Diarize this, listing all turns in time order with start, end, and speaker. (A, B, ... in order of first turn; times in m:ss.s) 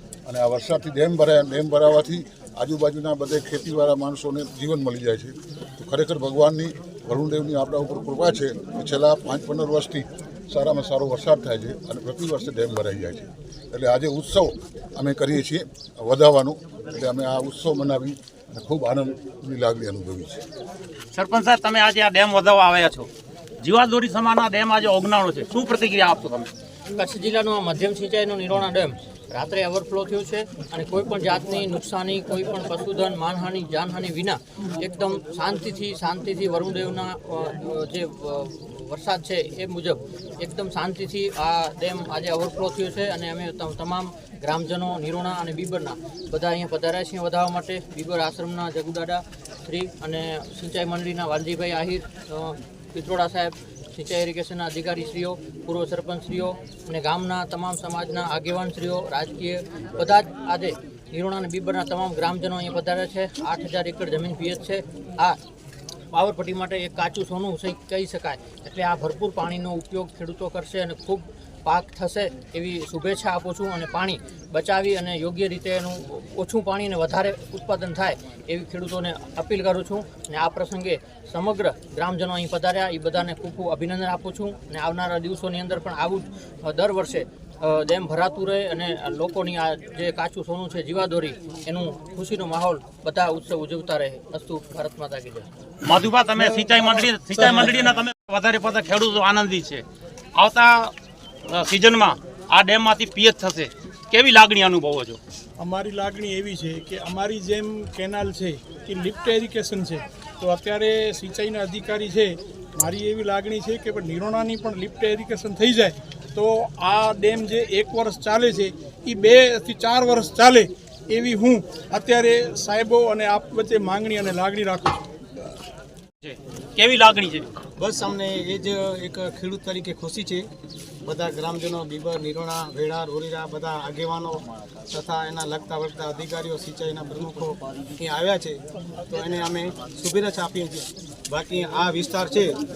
0:00.3-0:20.4 A
0:21.1-0:23.1 B
0:23.6-0:26.5 B
0:26.9-1:05.4 C
1:06.1-1:35.5 C
1:35.8-1:39.8 B
1:40.4-1:40.9 B
1:41.5-1:45.2 B
1:45.6-2:05.0 D
2:06.2-2:07.5 B
2:07.8-2:10.5 E
2:11.0-2:22.6 E